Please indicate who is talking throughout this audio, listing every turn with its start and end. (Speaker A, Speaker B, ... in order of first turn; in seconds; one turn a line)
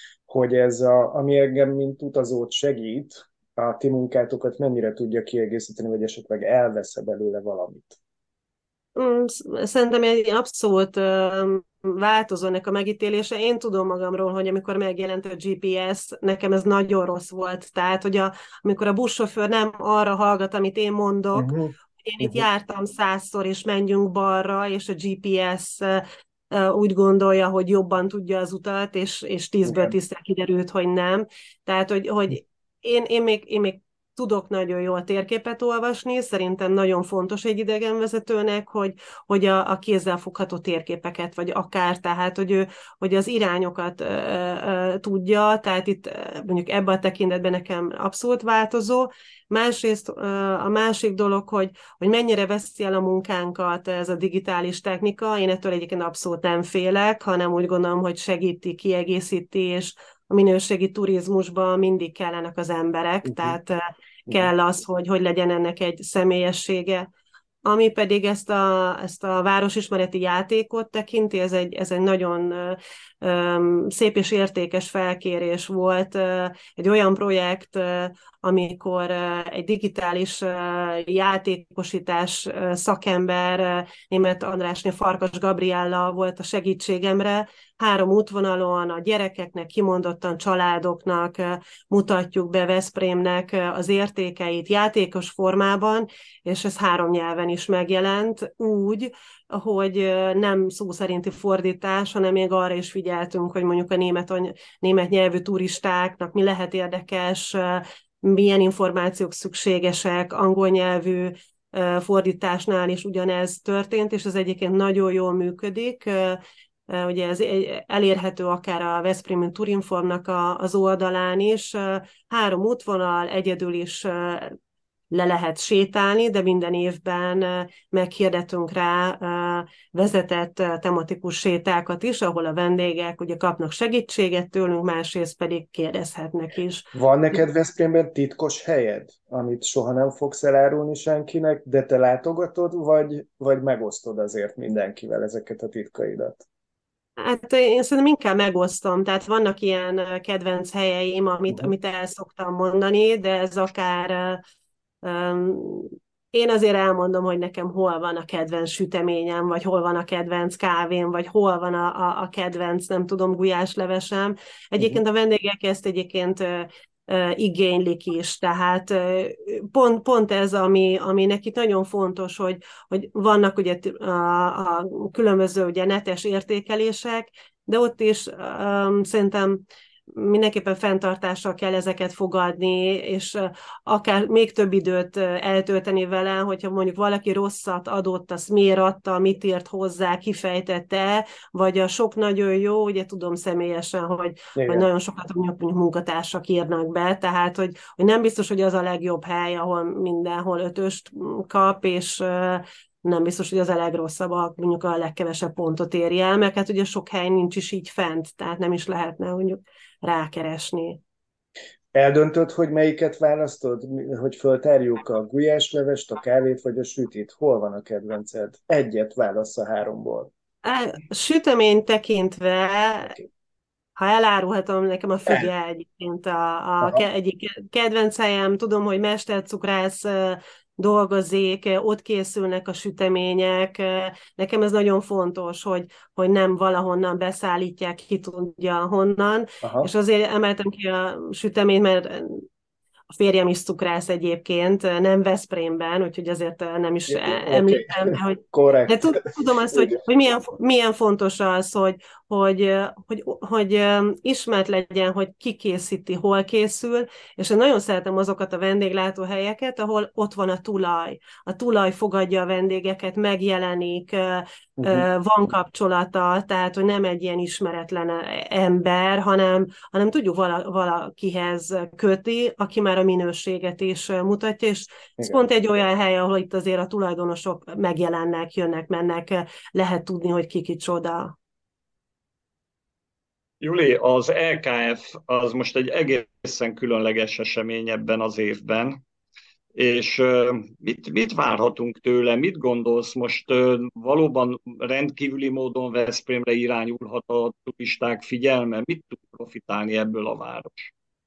Speaker A: 0.3-8.0
Speaker B: 9.0-67.1
Speaker A: 21.4-22.5
Speaker A: 29.6-29.9
Speaker A: 63.2-63.5
Speaker B: 67.7-124.6
Speaker B: 125.1-136.9
Speaker A: 136.9-146.4
Speaker B: 147.2-154.4
Speaker B: 155.0-211.0
Speaker A: 194.6-194.9
Speaker A: 211.9-220.3
Speaker B: 220.6-223.2
Speaker B: 224.0-242.4
Speaker A: 239.6-239.9
Speaker B: 243.1-281.4
Speaker A: 247.1-250.0
Speaker A: 264.8-265.1
Speaker C: 283.6-289.0
Speaker C: 289.8-300.9